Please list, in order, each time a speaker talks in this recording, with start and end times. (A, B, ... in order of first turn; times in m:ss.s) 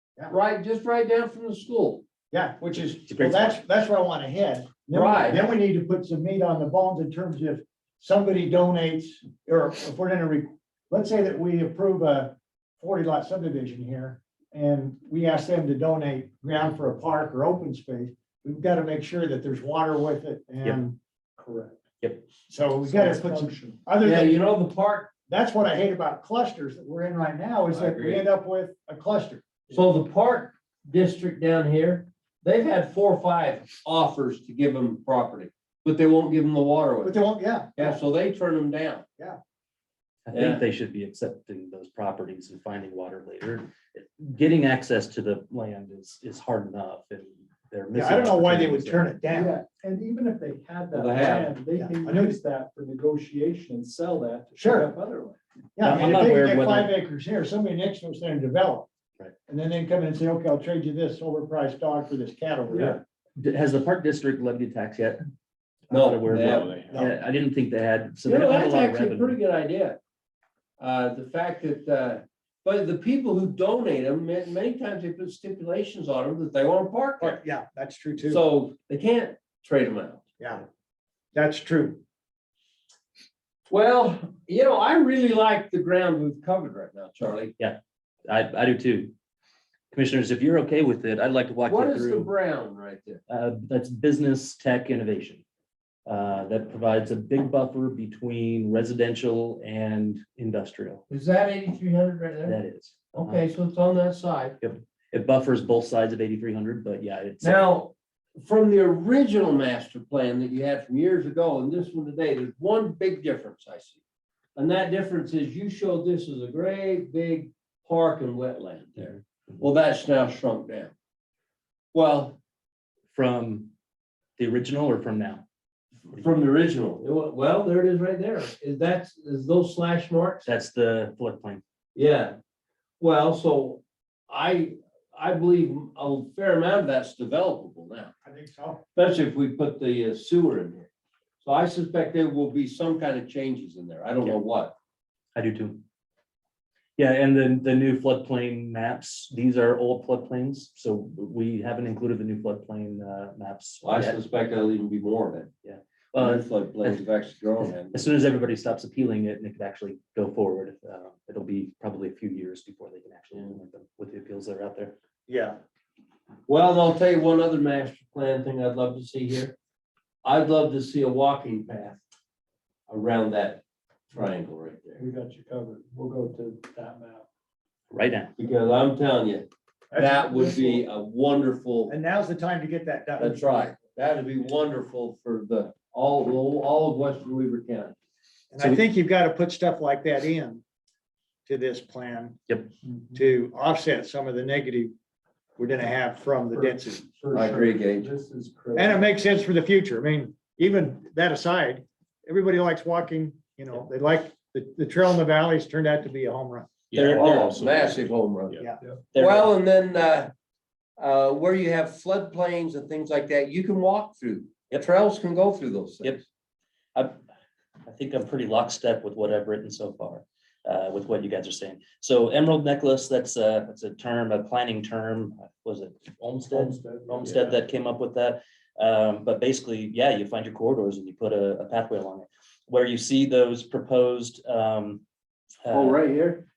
0:00.3-0:02.0 A
0:02.3-0:21.0 B
0:03.1-0:03.6 C
0:04.9-0:05.5 A
0:21.4-0:21.8 D
0:22.5-0:24.4 B
0:22.9-0:23.8 D
0:24.0-0:25.1 A
0:25.3-0:29.6 B
0:27.7-0:28.2 A
0:29.7-0:39.0 A
0:37.0-0:38.0 B
0:40.3-0:49.2 C
0:40.3-0:40.6 A
0:47.9-0:49.6 B
0:49.3-0:55.4 D
0:50.9-0:51.6 A
0:51.7-0:52.4 B
0:54.6-0:54.9 B
0:55.8-0:58.9 B
0:55.8-0:56.9 C
0:59.5-1:03.0 B
1:02.7-1:03.0 D
1:03.4-1:05.2 C
1:05.9-1:09.4 C
1:05.9-1:06.9 A
1:08.2-1:10.0 A
1:10.8-1:17.4 A
1:17.2-1:18.4 B
1:18.2-1:20.2 A
1:21.3-1:22.0 B
1:23.7-1:27.5 A
1:27.6-1:29.1 C
1:29.9-1:32.3 C
1:31.7-1:33.2 A
1:33.3-1:35.4 C
1:36.1-1:41.0 C
1:41.1-1:42.6 A
1:42.4-1:43.4 C
1:43.1-1:44.6 A
1:44.6-1:47.8 C
1:47.4-1:54.0 A
1:54.6-2:00.9 A
2:01.9-2:02.4 A
2:03.1-2:03.7 C
2:04.4-2:05.4 C
2:06.1-2:10.4 A
2:10.4-2:11.6 C
2:12.0-2:12.4 A
2:13.0-2:18.1 A
2:18.2-2:18.8 B
2:19.0-2:20.9 A
2:21.4-2:24.8 A
2:25.4-2:25.8 C
2:27.0-2:34.2 C
2:33.8-2:35.5 A
2:35.6-2:37.0 C
2:36.1-2:38.1 A
2:37.9-2:45.0 C
2:45.3-2:45.6 B
2:46.5-2:49.6 A
2:50.2-2:52.0 A
2:52.9-2:55.0 A
2:55.0-2:57.2 D
2:57.9-2:58.3 C
2:58.4-3:01.9 A
2:59.9-3:00.8 B
3:01.9-3:03.4 B
3:03.2-3:08.0 A
3:08.5-3:10.6 B
3:11.5-3:12.4 B
3:12.9-3:13.2 D
3:13.1-3:14.9 B
3:15.6-3:17.1 B
3:16.5-3:19.1 D
3:17.3-3:18.1 A
3:18.8-3:26.8 B
3:26.9-3:27.9 C
3:27.0-3:28.6 A
3:29.1-3:29.5 C
3:29.2-3:30.3 A
3:31.0-3:36.2 A
3:37.9-3:55.0 C
3:46.5-3:47.4 D
3:55.6-3:56.0 C
3:55.7-3:56.4 A